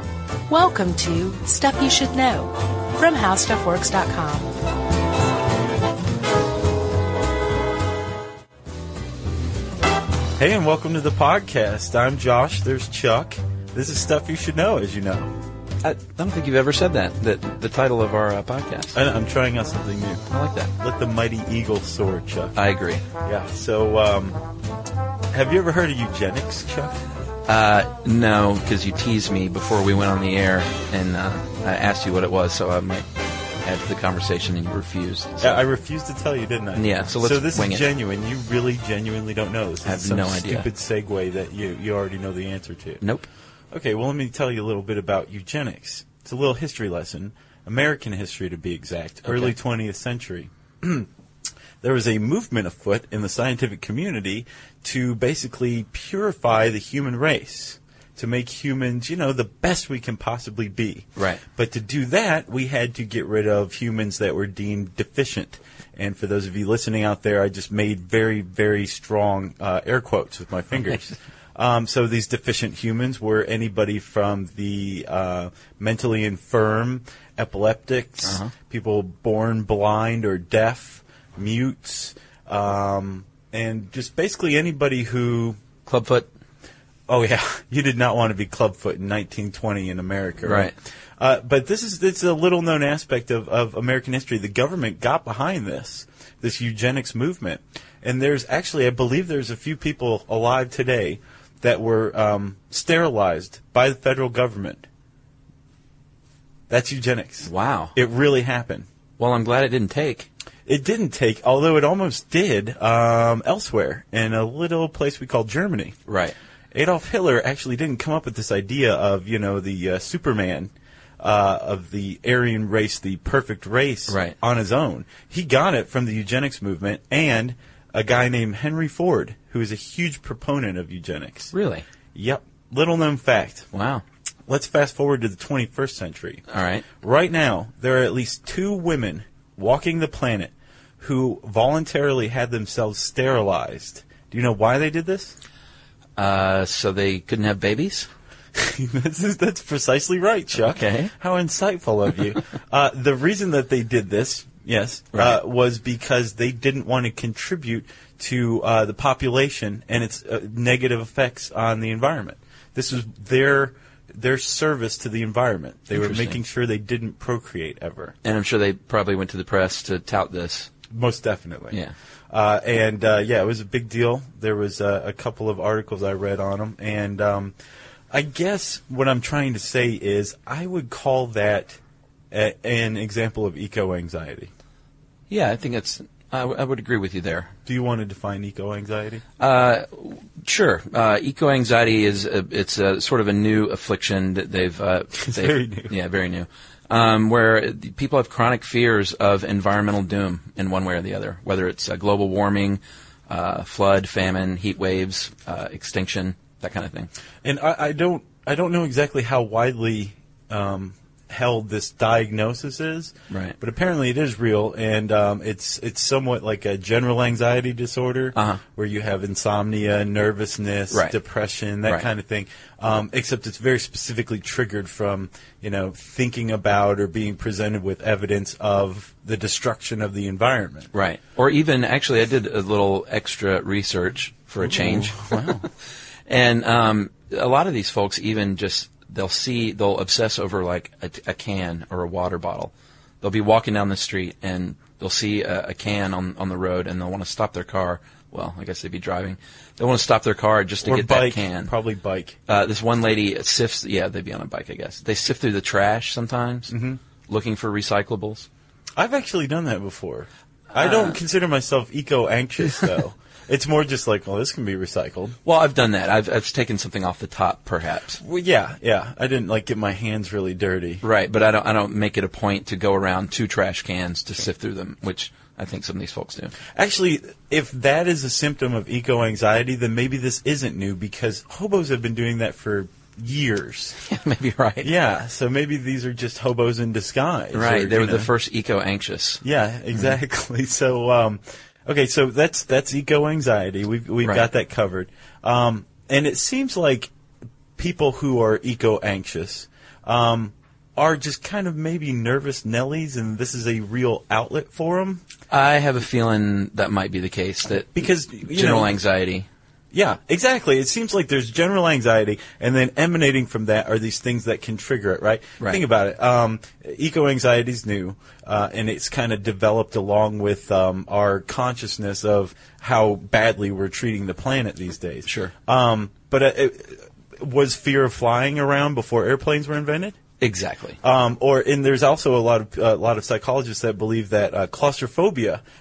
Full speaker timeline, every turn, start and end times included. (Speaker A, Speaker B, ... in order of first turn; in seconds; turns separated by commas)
Speaker A: 0.5-4.5, Speaker B: 10.4-15.3, Speaker C: 15.8-18.9, Speaker B: 18.9-20.2, Speaker C: 20.3-20.7, Speaker B: 20.8-22.6, Speaker C: 22.6-23.0, Speaker B: 23.2-24.4, Speaker B: 25.3-27.0, Speaker C: 27.5-33.0, Speaker C: 33.6-35.6, Speaker B: 35.4-43.0, Speaker C: 36.7-37.9, Speaker C: 39.8-40.7, Speaker C: 43.0-43.3, Speaker B: 43.7-51.1, Speaker C: 49.3-49.5, Speaker B: 51.8-85.6, Speaker C: 61.2-61.4, Speaker C: 78.2-78.5, Speaker C: 85.9-86.3, Speaker B: 87.1-104.8, Speaker C: 90.4-90.8, Speaker B: 106.7-108.9, Speaker C: 107.4-108.0, Speaker C: 109.2-110.3, Speaker B: 110.7-116.0, Speaker C: 116.1-116.3, Speaker B: 116.7-131.5, Speaker C: 124.1-124.4, Speaker C: 131.5-131.8, Speaker B: 132.1-133.7, Speaker C: 133.7-134.0, Speaker B: 134.5-136.4, Speaker C: 136.5-136.9, Speaker B: 137.0-145.4, Speaker C: 146.2-148.1, Speaker B: 148.6-168.1, Speaker C: 150.6-151.1, Speaker C: 165.9-166.4, Speaker C: 168.2-170.7, Speaker B: 170.9-171.8, Speaker B: 172.3-177.6, Speaker B: 178.1-181.8, Speaker B: 182.3-184.5, Speaker C: 185.3-187.5, Speaker B: 187.7-189.2, Speaker C: 189.4-207.1, Speaker B: 195.2-195.9, Speaker B: 207.4-230.9, Speaker C: 213.3-213.6, Speaker C: 218.3-218.6, Speaker C: 220.9-221.2, Speaker C: 230.9-235.6, Speaker B: 234.6-235.7, Speaker C: 236.3-251.7, Speaker B: 250.8-252.4, Speaker C: 252.5-256.7, Speaker B: 256.7-257.0, Speaker C: 257.3-258.5, Speaker B: 258.9-265.4, Speaker C: 260.8-261.2, Speaker C: 265.4-268.2, Speaker B: 268.2-271.0, Speaker C: 271.0-276.6, Speaker B: 276.7-283.9, Speaker C: 284.0-284.9, Speaker B: 284.8-288.3, Speaker C: 287.5-289.4, Speaker B: 289.4-297.1, Speaker C: 294.2-294.5, Speaker B: 297.8-305.2, Speaker C: 305.5-309.5, Speaker B: 307.9-308.9, Speaker B: 309.9-330.2, Speaker C: 325.2-325.5, Speaker C: 330.4-331.0, Speaker B: 331.0-335.6